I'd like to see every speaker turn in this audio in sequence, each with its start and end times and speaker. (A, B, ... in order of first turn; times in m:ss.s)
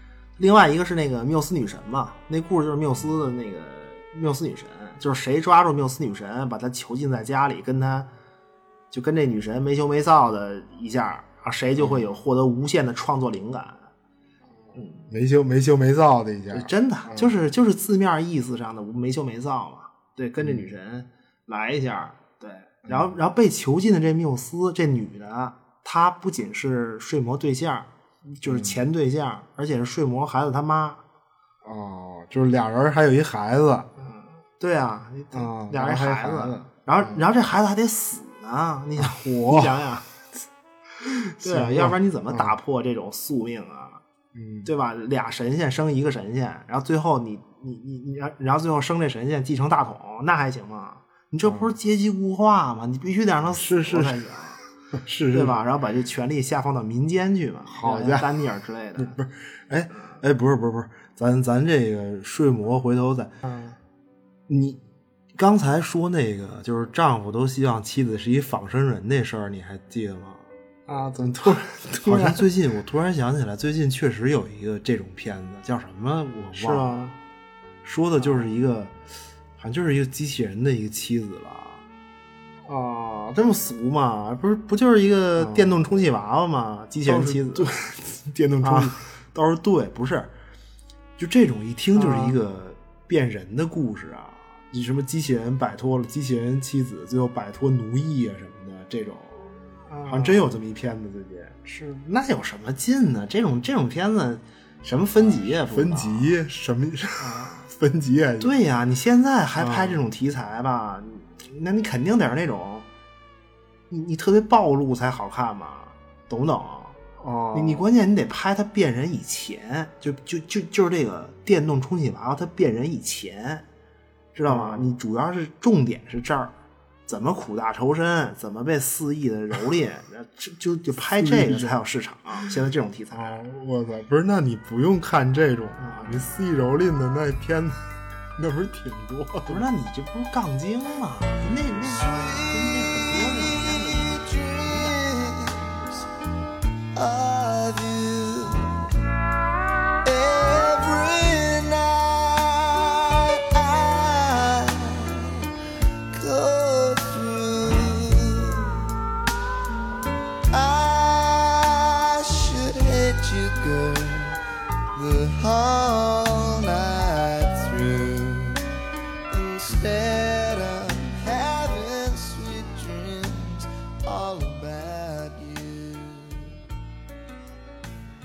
0:00.4-0:08.1 A
0:08.9-0:13.9 A
0:11.8-0:12.1 B
0:14.8-0:15.1 A
0:15.1-0:17.4 B
0:16.5-0:31.0 A
0:20.4-0:20.7 B
0:22.9-0:23.1 B
0:28.4-0:28.8 B
0:31.6-0:33.9 B
0:34.0-0:40.1 A
0:35.3-0:37.3 B
0:39.0-0:39.8 B
0:41.0-0:42.6 B
0:41.4-0:44.0 A
0:44.3-0:44.7 B
0:44.6-0:54.6 A
0:51.4-0:51.8 B
0:53.4-0:54.4 B
0:54.9-0:55.6 B
0:55.3-0:59.2 A
0:57.7-1:03.3 B
0:59.9-1:00.2 A
1:03.4-1:03.8 A
1:04.5-1:04.8 B
1:05.4-1:17.1 B
1:10.9-1:12.6 A
1:16.5-1:17.2 A
1:17.9-1:18.9 B
1:17.9-1:18.6 A
1:19.6-1:21.8 B
1:22.7-1:27.8 A
1:25.4-1:25.8 B
1:27.0-1:29.5 B
1:28.6-1:30.3 A
1:31.2-1:39.5 B
1:31.6-1:32.4 A
1:39.9-1:40.6 A
1:40.0-1:41.7 B
1:41.7-1:46.3 A
1:45.2-1:48.6 B
1:47.2-1:47.6 A
1:48.4-1:52.9 A
1:49.6-1:50.0 B
1:53.9-1:57.0 A
1:57.2-1:57.9 B
1:57.5-2:03.6 A
2:04.4-2:06.5 A
2:04.5-2:05.0 B
2:07.1-2:13.4 A
2:11.2-2:11.8 B
2:13.1-2:17.8 B
2:15.8-2:16.3 A
2:18.4-2:19.7 B
2:19.5-2:25.3 A
2:21.7-2:26.0 C
2:26.9-2:29.0 C
2:30.0-2:35.5 C
2:36.1-2:38.9 C
2:40.5-2:44.4 C
2:45.0-2:48.7 C
2:49.3-2:56.6 C